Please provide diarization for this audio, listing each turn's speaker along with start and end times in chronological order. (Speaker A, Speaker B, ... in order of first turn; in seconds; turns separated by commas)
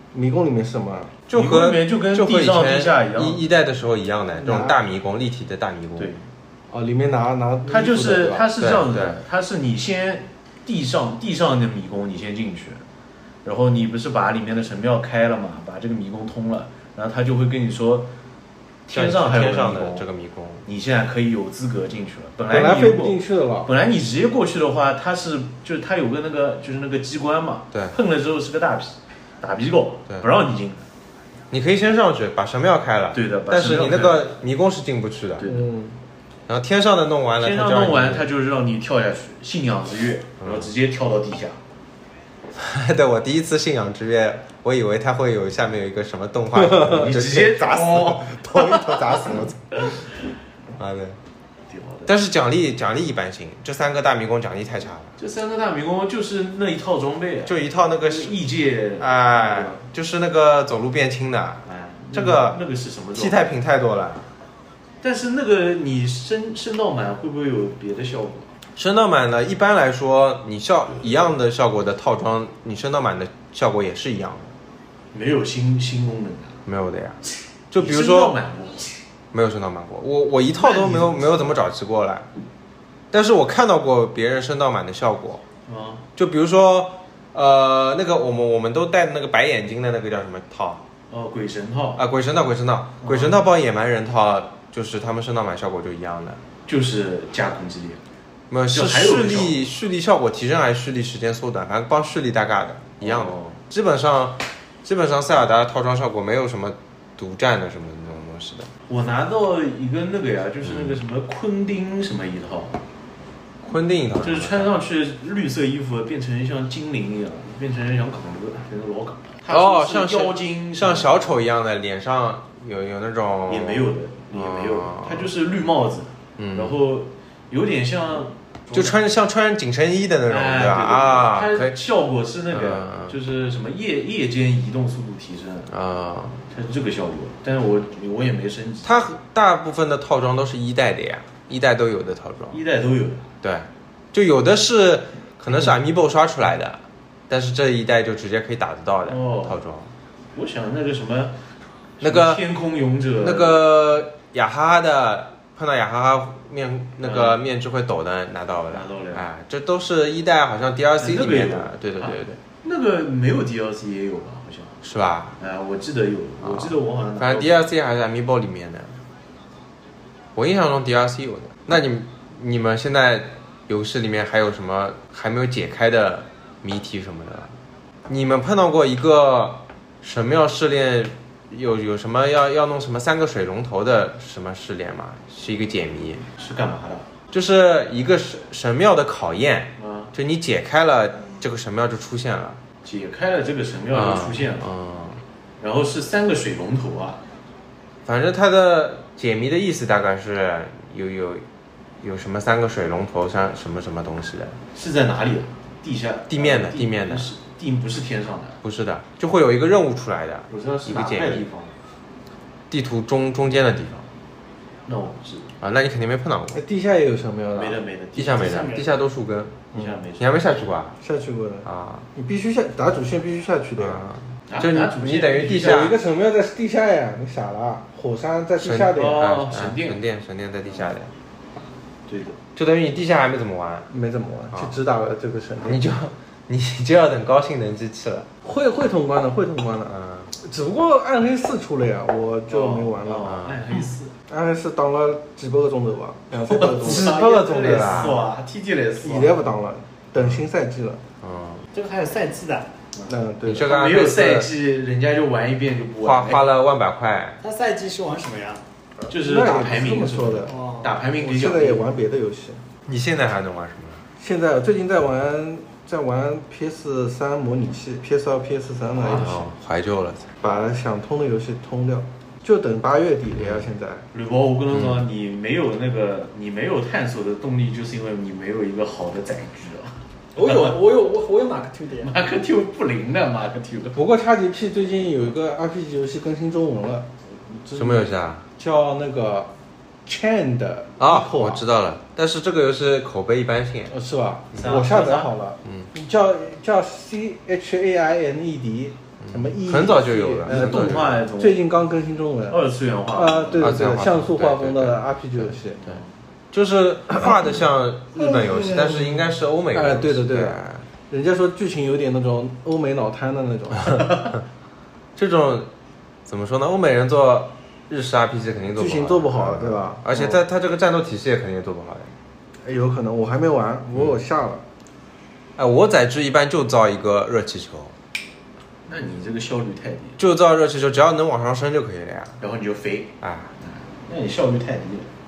Speaker A: 0.1-1.1, Speaker B: 1.3-6.1, Speaker C: 1.3-3.4, Speaker A: 4.3-4.8, Speaker C: 6.0-6.2, Speaker A: 6.7-8.5, Speaker C: 7.7-12.8, Speaker B: 8.6-9.2, Speaker C: 13.4-18.1, Speaker C: 18.9-20.1, Speaker B: 18.9-20.6, Speaker C: 20.6-30.9, Speaker A: 22.5-23.7, Speaker B: 31.5-35.5, Speaker C: 33.1-34.3, Speaker C: 35.4-35.6, Speaker A: 35.4-36.0, Speaker B: 36.5-38.3, Speaker C: 37.4-41.6, Speaker B: 40.4-40.7, Speaker B: 42.5-50.0, Speaker A: 46.6-47.1, Speaker C: 46.9-49.2, Speaker B: 50.8-51.2, Speaker C: 51.7-52.1, Speaker B: 52.1-55.1, Speaker C: 55.2-59.8, Speaker B: 57.5-58.4, Speaker B: 59.0-62.6, Speaker C: 61.6-63.4, Speaker B: 63.1-64.3, Speaker C: 65.0-68.5, Speaker B: 68.8-74.5, Speaker C: 75.1-76.6, Speaker B: 76.7-77.2, Speaker B: 77.7-78.4, Speaker C: 77.8-78.9, Speaker B: 79.3-82.3, Speaker C: 80.5-81.5, Speaker B: 83.1-85.4, Speaker C: 85.7-86.0, Speaker B: 86.2-90.8, Speaker C: 91.1-92.0, Speaker B: 92.0-96.4, Speaker C: 93.0-93.5, Speaker C: 96.7-98.0, Speaker B: 98.5-108.7, Speaker C: 98.7-99.6, Speaker C: 103.0-103.6, Speaker C: 108.9-112.8, Speaker B: 110.6-111.0, Speaker B: 113.6-114.8, Speaker C: 114.2-121.4, Speaker B: 119.5-125.3, Speaker C: 123.5-129.0, Speaker B: 126.4-126.8, Speaker B: 128.7-131.7, Speaker C: 130.3-135.7, Speaker B: 132.5-133.1, Speaker B: 135.7-136.4, Speaker C: 136.5-139.0, Speaker B: 138.8-142.6, Speaker C: 142.5-143.3, Speaker B: 143.4-149.9, Speaker C: 149.1-149.6, Speaker C: 150.3-151.3, Speaker C: 152.0-153.6, Speaker B: 152.0-152.4, Speaker B: 153.2-162.4, Speaker C: 157.0-157.4, Speaker C: 158.7-159.2, Speaker C: 161.0-164.8, Speaker B: 164.8-165.4, Speaker C: 165.4-167.6, Speaker B: 166.4-169.0, Speaker B: 170.3-177.5, Speaker B: 178.1-186.3, Speaker C: 186.4-187.1, Speaker B: 187.3-192.6, Speaker C: 189.8-190.1, Speaker C: 192.8-194.7, Speaker B: 193.9-195.2, Speaker C: 195.6-197.2, Speaker B: 198.0-201.4, Speaker B: 202.0-204.6, Speaker C: 204.7-208.6, Speaker B: 206.3-207.3, Speaker B: 208.6-211.4, Speaker C: 210.5-211.7, Speaker B: 212.7-214.1, Speaker C: 214.8-215.5, Speaker B: 215.6-216.6, Speaker A: 216.5-217.8, Speaker C: 217.5-218.9, Speaker B: 218.1-221.0, Speaker C: 219.7-220.3, Speaker A: 221.0-224.1, Speaker B: 221.6-222.1, Speaker B: 223.8-226.0, Speaker C: 224.5-225.9, Speaker A: 225.5-229.3, Speaker B: 228.6-231.1, Speaker C: 228.9-230.0, Speaker C: 232.1-232.4, Speaker B: 232.5-233.9, Speaker A: 233.9-235.9, Speaker B: 234.5-234.8, Speaker B: 235.6-238.3, Speaker A: 238.4-243.3, Speaker B: 239.9-240.3, Speaker C: 242.5-244.1, Speaker B: 243.2-243.6, Speaker A: 244.3-248.2, Speaker C: 246.3-249.4, Speaker B: 246.8-248.2, Speaker A: 249.0-251.0, Speaker B: 250.2-250.4, Speaker B: 251.2-251.6, Speaker D: 251.7-252.7, Speaker C: 252.9-256.4, Speaker A: 253.1-253.7, Speaker B: 253.4-254.5, Speaker B: 256.0-257.4, Speaker D: 257.4-258.6, Speaker A: 259.0-260.5, Speaker C: 259.1-261.9, Speaker D: 260.5-260.9, Speaker A: 261.2-262.6, Speaker B: 262.9-264.0, Speaker A: 264.2-269.4, Speaker C: 269.0-269.5, Speaker B: 269.0-270.3, Speaker A: 270.4-274.0, Speaker B: 273.3-273.7, Speaker C: 274.1-280.7, Speaker B: 274.7-275.0, Speaker D: 280.4-282.1, Speaker C: 282.0-284.0, Speaker A: 283.9-289.5, Speaker B: 287.7-288.4, Speaker A: 290.1-291.6, Speaker B: 291.0-293.9, Speaker A: 293.9-305.8, Speaker C: 294.5-295.3, Speaker B: 299.2-301.2, Speaker C: 300.4-301.6, Speaker C: 302.5-303.8, Speaker B: 303.6-305.6, Speaker C: 305.8-306.1, Speaker B: 306.5-310.8, Speaker A: 308.3-309.2, Speaker A: 309.7-314.3, Speaker B: 315.1-315.7, Speaker B: 316.2-322.1, Speaker A: 318.8-320.3, Speaker A: 322.6-324.6, Speaker B: 325.6-327.9, Speaker C: 328.9-330.2, Speaker B: 330.2-332.4, Speaker C: 332.4-335.1, Speaker B: 333.2-333.5